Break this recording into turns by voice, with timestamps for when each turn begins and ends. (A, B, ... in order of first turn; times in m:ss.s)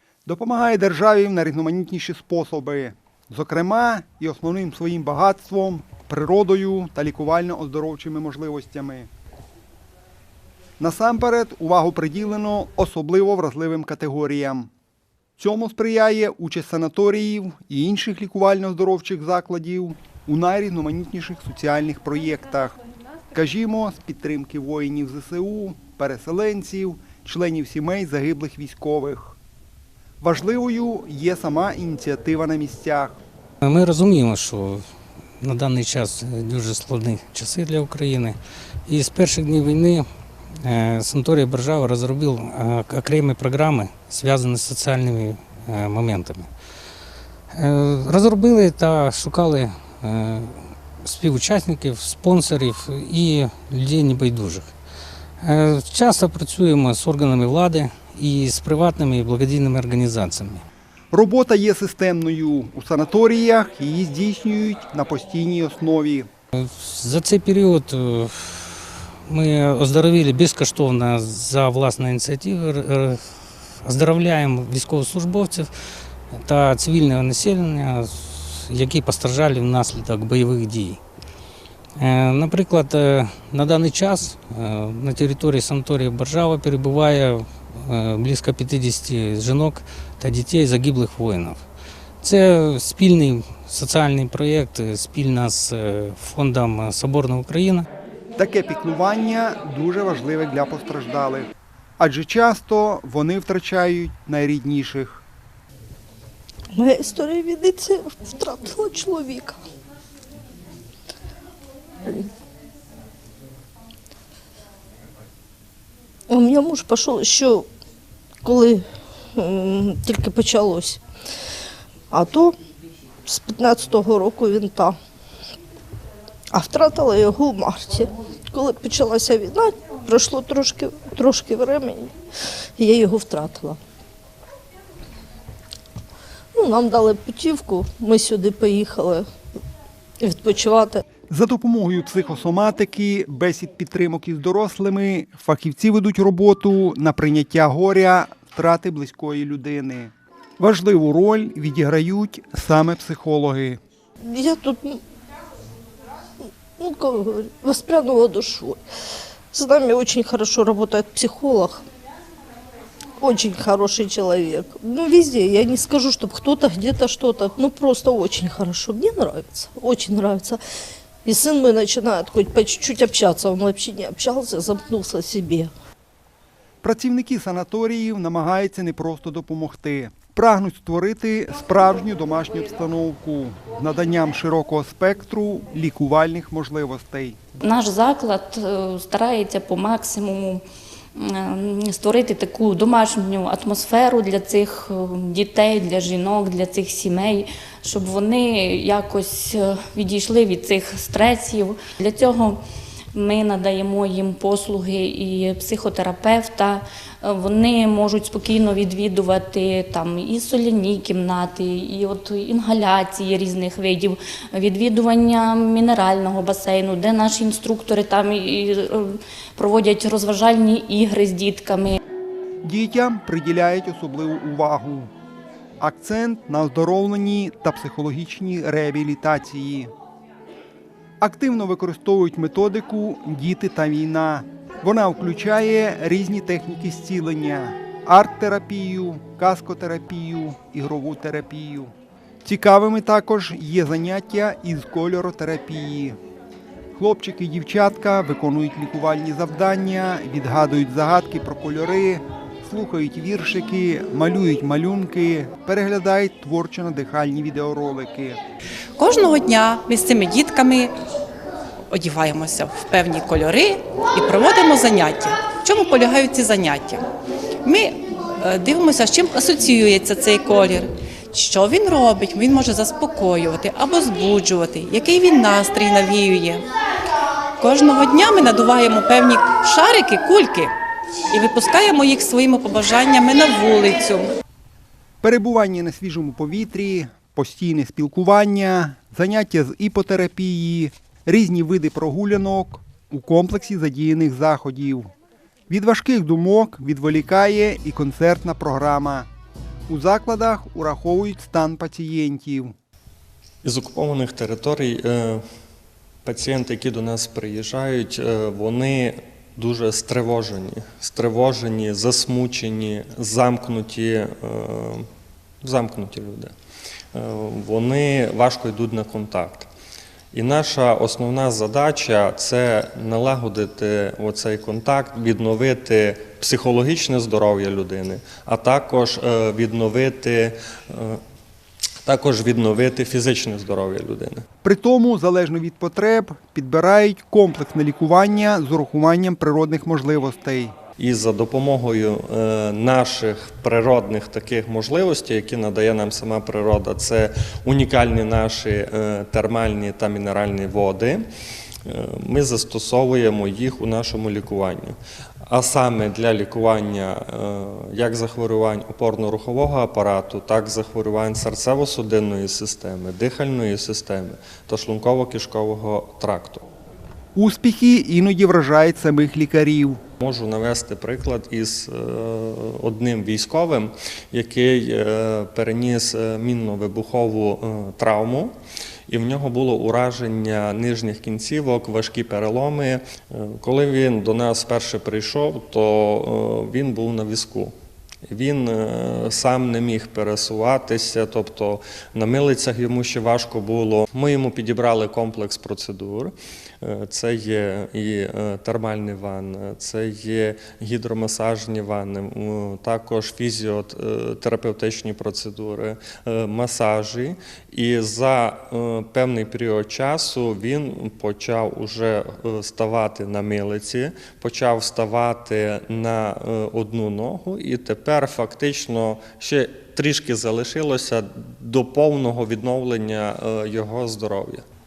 0:00.2-0:09.1 A
0:10.8-0:14.7 A
0:15.4-0:22.8 A
0:23.3-0:29.4 A
0:30.2-0:33.2 A
0:33.6-0:34.8 B
0:35.4-0:40.1 B
0:40.6-0:46.5 B
0:47.5-0:54.7 B
0:55.4-1:00.6 B
1:01.1-1:06.3 A
1:06.5-1:15.7 B
1:16.3-1:21.0 B
1:22.0-1:31.6 B
1:32.2-1:37.9 B
1:38.4-1:41.5 A
1:42.0-1:45.2 A
1:46.7-1:49.6 C
1:56.3-1:57.6 C
1:58.4-1:58.8 C
1:59.4-2:01.0 C
2:02.1-2:02.5 C
2:03.2-2:04.9 C
2:06.5-2:12.1 C
2:12.8-2:13.8 C
2:16.5-2:19.2 C
2:20.2-2:21.0 C
2:21.3-2:33.8 A
2:34.3-2:35.0 C
2:36.8-2:38.8 C
2:39.5-2:41.8 C
2:43.2-2:50.6 C
2:51.2-2:55.7 C
2:56.8-3:07.4 A
3:07.6-3:10.6 D
3:11.2-3:22.6 D
3:23.1-3:42.0 D
3:42.6-3:45.1 A
3:45.8-3:49.9 A
3:51.2-4:01.9 A
4:02.4-4:06.2 A
4:07.0-4:18.4 A
4:19.0-4:20.9 E
4:21.9-4:27.0 E
4:27.6-4:36.6 E
4:37.6-4:40.7 E
4:41.3-4:44.3 E
4:45.2-4:55.1 A
4:55.7-4:59.3 A
4:59.9-5:02.7 A
5:03.6-5:05.4 F
5:06.2-5:15.1 F
5:15.6-5:16.5 F
5:17.1-5:19.7 F
5:20.3-5:31.2 F
5:32.0-5:34.4 F
5:34.6-5:40.8 A
5:41.0-5:51.2 F
5:51.9-5:54.9 F
5:55.5-6:06.6 F
6:07.3-6:10.0 A
6:10.2-6:18.5 F
6:19.1-6:27.7 F
6:28.3-7:04.6 F